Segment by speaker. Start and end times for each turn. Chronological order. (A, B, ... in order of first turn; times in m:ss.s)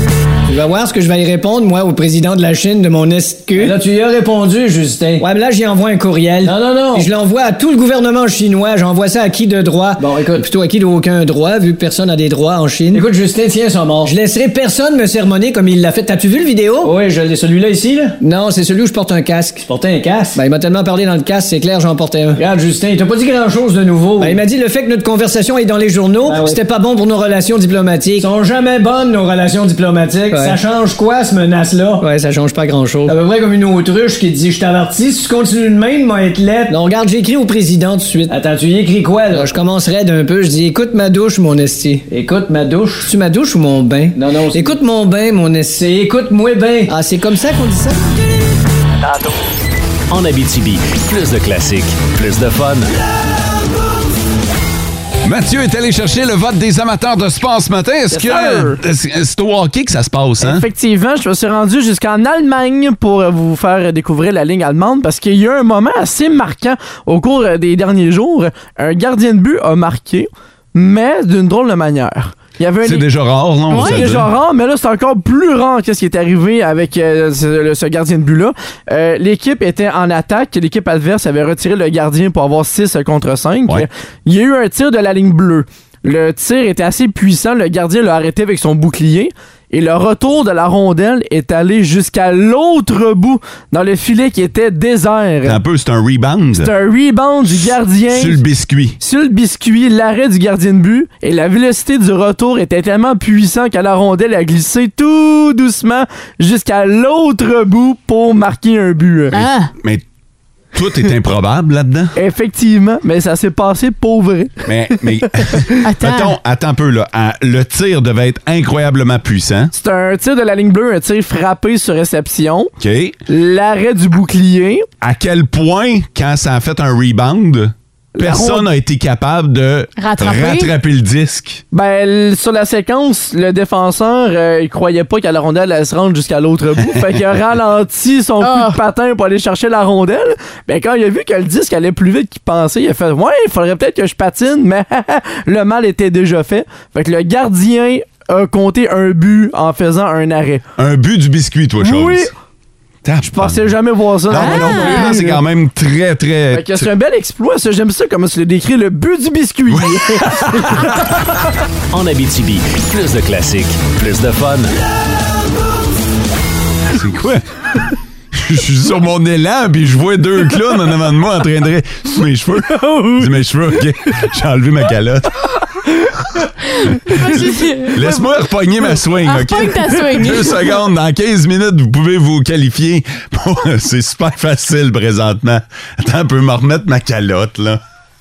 0:00.5-0:03.8 A
0:03.5-0:05.3 B
0:05.2-0:13.1 A
0:06.4-0:07.1 B
0:10.0-0:11.2 B
0:12.9-0:14.6 B
0:14.0-0:17.0 A
0:16.8-0:18.2 B
0:18.2-0:19.6 A
0:19.6-0:20.4 B
0:20.3-0:22.4 A
0:22.4-0:24.4 B
0:24.2-0:28.3 A
0:26.2-0:26.7 B
0:28.2-0:32.1 B
0:30.3-0:30.6 A
0:32.0-0:33.2 A
0:33.1-0:36.8 B
0:36.7-0:38.4 A
0:38.3-0:39.6 B
0:39.3-0:42.1 A
0:42.1-0:43.1 B
0:43.0-0:45.7 A
0:44.1-0:44.8 B
0:45.6-0:47.0 B
0:46.9-0:48.2 A
0:50.1-0:52.9 C
0:55.2-1:00.7 D
0:58.1-0:58.8 E
1:00.4-1:13.1 E
1:12.8-1:14.3 D
1:13.7-1:35.6 E
1:13.7-1:14.0 F
1:35.4-1:36.7 D
1:36.5-1:38.4 E
1:38.1-1:39.0 D
1:39.0-1:49.4 E
1:49.3-1:49.7 F
1:49.8-1:50.0 D
1:50.7-1:52.1 D
1:52.2-1:54.7 E
1:54.7-1:59.7 D
1:55.8-1:56.4 F
1:59.7-2:02.7 E
2:02.8-2:03.2 D
2:03.3-2:04.8 E
2:05.0-2:11.6 D
2:08.2-2:08.7 E
2:10.0-2:10.7 F
2:11.7-2:30.6 E
2:18.4-2:18.8 F
2:30.8-2:32.3 D
2:31.8-2:32.3 E
2:33.0-2:36.9 D
2:33.2-2:35.4 E
2:34.3-2:35.1 F
2:36.5-2:41.1 E
2:39.7-2:40.9 D
2:41.9-2:44.7 C
2:46.9-2:47.4 D
2:48.3-2:55.4 D
2:52.7-2:53.3 E
2:57.1-2:58.0 F
2:57.1-3:07.8 D
2:59.2-3:00.6 F